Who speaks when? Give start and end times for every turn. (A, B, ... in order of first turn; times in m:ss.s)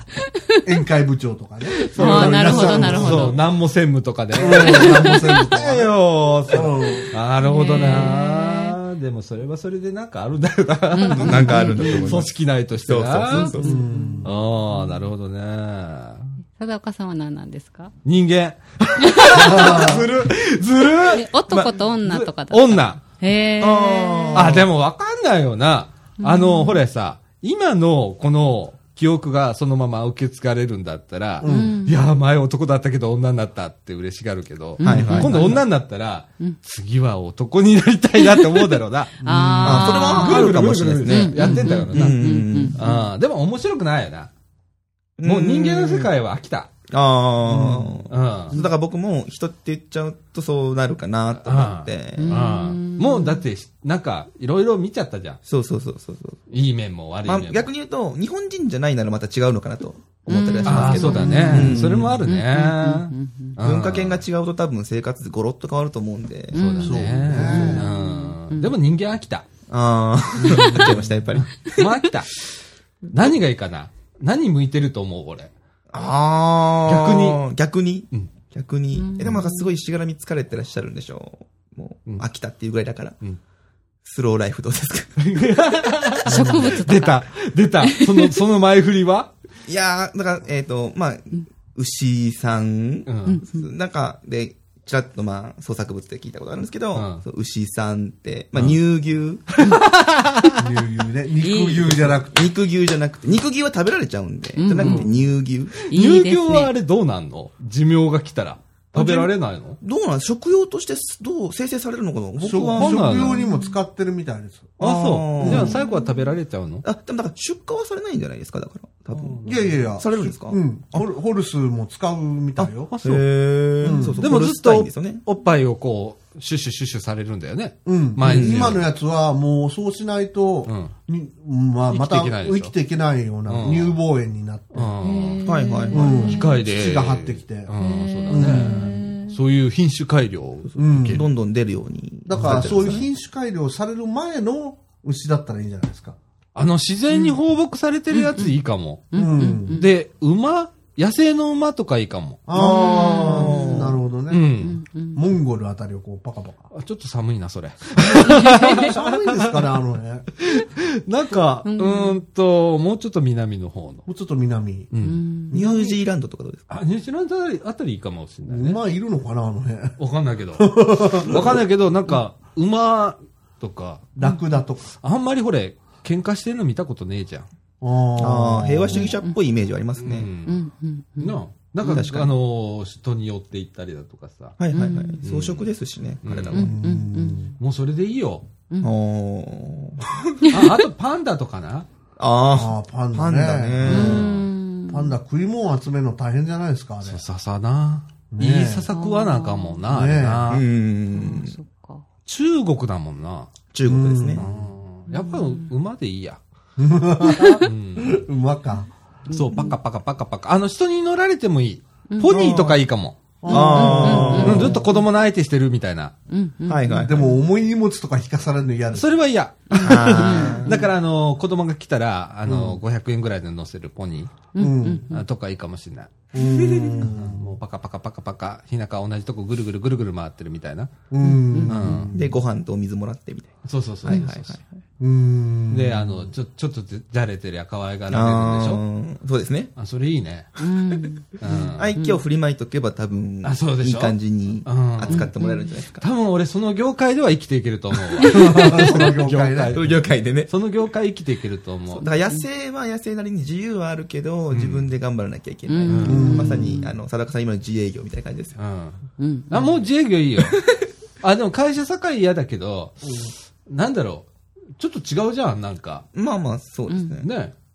0:00.6-0:03.4 A
0:01.9-0:03.4 B
0:01.9-0:13.6 C
0:04.3-0:05.9 A
0:04.4-0:05.6 B
0:06.4-0:07.1 A
0:07.4-0:08.8 B
0:10.9-0:12.2 B
0:11.1-0:13.8 D
0:13.3-0:15.0 B
0:13.6-0:14.3 A
0:14.2-0:16.3 C
0:16.6-0:17.9 B
0:18.0-0:21.3 C
0:19.0-0:20.0 B
0:19.3-0:20.0 A
0:21.1-0:24.6 B
0:22.0-0:23.0 C
0:23.6-0:24.7 D
0:24.3-0:39.2 C
0:26.2-0:26.8 B
0:31.4-0:31.8 A
0:31.4-0:32.0 B
0:34.8-0:35.6 B
0:34.8-0:35.5 D
0:35.0-0:35.6 A
0:38.2-0:43.0 B
0:39.2-0:40.0 A
0:39.6-0:42.8 D
0:39.9-0:42.2 C
0:42.7-0:44.3 C
0:45.2-0:46.1 D
0:45.2-0:46.7 C
0:46.9-0:52.4 D
0:47.4-0:48.1 A
0:48.1-0:48.6 C
0:51.4-0:55.4 C
0:52.2-0:53.4 B
0:55.4-0:56.4 D
0:56.5-0:57.7 C
0:57.2-1:02.2 D
1:00.3-1:01.7 B
1:00.6-1:04.2 C
1:01.1-1:02.2 A
1:02.2-1:03.6 B
1:03.6-1:06.6 D
1:06.5-1:08.7 B
1:06.5-1:09.4 C
1:06.8-1:07.9 A
1:09.7-1:11.9 D
1:10.4-1:11.1 A
1:10.4-1:10.9 B
1:11.6-1:12.3 C
1:13.1-1:15.5 C
1:15.9-1:23.2 D
1:16.8-1:17.4 C
1:18.9-1:19.7 B
1:24.0-1:25.4 D
1:25.2-1:29.3 C
1:26.2-1:27.3 B
1:27.8-1:28.4 B
1:29.6-1:39.5 D
1:33.1-1:33.4 C
1:33.2-1:33.7 B
1:36.9-1:37.2 C
1:39.5-1:40.6 C
1:40.6-1:42.5 A
1:41.4-1:41.8 B
1:41.6-1:45.7 D
1:44.6-1:45.2 B
1:45.8-1:49.8 C
1:45.8-1:46.7 B
1:48.9-1:53.2 D
1:52.4-1:54.8 A
1:52.7-1:53.4 C
1:53.3-1:53.8 B
1:54.8-1:55.8 D
1:54.8-1:56.8 C
1:55.4-1:55.8 A
1:55.7-1:56.1 B
1:56.8-2:01.0 D
1:59.1-1:59.7 C
1:59.4-2:02.9 A
2:02.6-2:03.2 C
2:03.0-2:05.2 D
2:03.8-2:04.3 A
2:04.2-2:08.9 C
2:07.8-2:14.9 A
2:08.2-2:08.8 D
2:10.6-2:10.9 C
2:11.9-2:12.7 C
2:13.5-2:14.0 C
2:14.7-2:15.6 C
2:15.0-2:16.6 B
2:15.4-2:16.3 D
2:15.9-2:17.7 A
2:16.2-2:21.2 C
2:17.8-2:19.4 B
2:18.3-2:19.0 A
2:20.7-2:23.1 D
2:20.8-2:21.2 A
2:22.2-2:26.2 A
2:22.4-2:23.0 C
2:26.5-2:29.1 C
2:27.1-2:27.4 B
2:28.1-2:28.5 B
2:29.1-2:29.9 B
2:29.1-2:29.8 A
2:29.7-2:32.4 C
2:32.5-2:34.5 A
2:32.5-2:33.9 B
2:32.6-2:34.0 D
2:34.3-2:34.8 C
2:34.6-2:35.2 B
2:35.1-2:36.7 A
2:36.7-2:39.6 C
2:38.1-2:38.9 B
2:38.5-2:40.3 A
2:40.4-2:44.0 C
2:41.6-2:42.2 B
2:44.1-2:44.9 A
2:44.9-2:45.2 C
2:45.0-2:45.8 B
2:45.5-2:46.7 D
2:45.5-2:45.9 A
2:46.7-2:48.8 C
2:48.4-2:50.0 A
2:50.0-2:54.1 C
2:50.6-2:51.6 A
2:54.2-2:54.9 A
2:55.0-2:57.5 C
2:57.8-2:59.1 A
2:58.2-3:00.3 D
2:58.9-2:59.4 B
3:00.0-3:00.6 C
3:00.4-3:02.0 B
3:01.2-3:04.6 C
3:01.8-3:02.3 D
3:04.6-3:06.8 D
3:04.7-3:05.2 B
3:05.2-3:05.7 C
3:06.2-3:06.7 C
3:06.5-3:07.5 B
3:06.5-3:07.5 A
3:07.6-3:08.5 C
3:08.8-3:10.5 D
3:10.5-3:11.9 C
3:12.2-3:14.3 D
3:12.5-3:14.3 A
3:13.8-3:14.4 C
3:13.8-3:15.1 B
3:14.9-3:17.2 A
3:17.0-3:20.6 C
3:18.3-3:18.9 A
3:18.9-3:19.8 B
3:19.9-3:20.6 A
3:20.5-3:21.5 D
3:21.1-3:22.0 B
3:22.2-3:23.5 C
3:23.7-3:24.4 D
3:23.8-3:24.5 A
3:24.3-3:26.4 C
3:25.1-3:25.7 B
3:26.8-3:28.9 A
3:27.3-3:27.6 B
3:27.6-3:28.2 C
3:29.3-3:29.7 B
3:29.3-3:33.2 C
3:32.1-3:32.4 B
3:33.4-3:34.8 A
3:33.4-3:34.7 D
3:33.5-3:35.0 B
3:33.8-3:36.1 C
3:36.3-3:37.3 B
3:36.6-3:37.4 D
3:37.0-3:39.1 A
3:38.9-3:44.4 C
3:39.7-3:40.9 B
3:39.7-3:40.8 D
3:42.5-3:42.8 A
3:44.5-3:45.2 B
3:44.6-3:45.1 A
3:45.1-3:50.9 C
3:46.3-3:47.6 A
3:51.1-3:52.4 A
3:51.2-3:51.9 B
3:51.7-3:52.1 C
3:52.1-3:54.8 D
3:53.6-3:54.5 C
3:55.0-3:56.3 A
3:55.7-3:58.8 C
3:58.1-3:59.7 D
3:59.8-4:00.5 C
4:00.6-4:01.3 B
4:01.4-4:01.9 C
4:01.5-4:06.0 D
4:01.9-4:02.2 B
4:03.4-4:05.3 C
4:05.1-4:05.7 B
4:06.0-4:12.0 C
4:08.3-4:09.8 A
4:09.7-4:10.5 D
4:11.9-4:18.6 D
4:12.0-4:12.4 B
4:14.5-4:14.8 C
4:15.6-4:16.9 B
4:15.9-4:16.5 C
4:16.0-4:16.8 A
4:18.6-4:20.6 C
4:19.2-4:19.6 B
4:20.4-4:20.8 D
4:21.2-4:26.0 C
4:23.0-4:23.3 A
4:26.1-4:27.3 D
4:26.9-4:27.2 B
4:27.2-4:27.5 C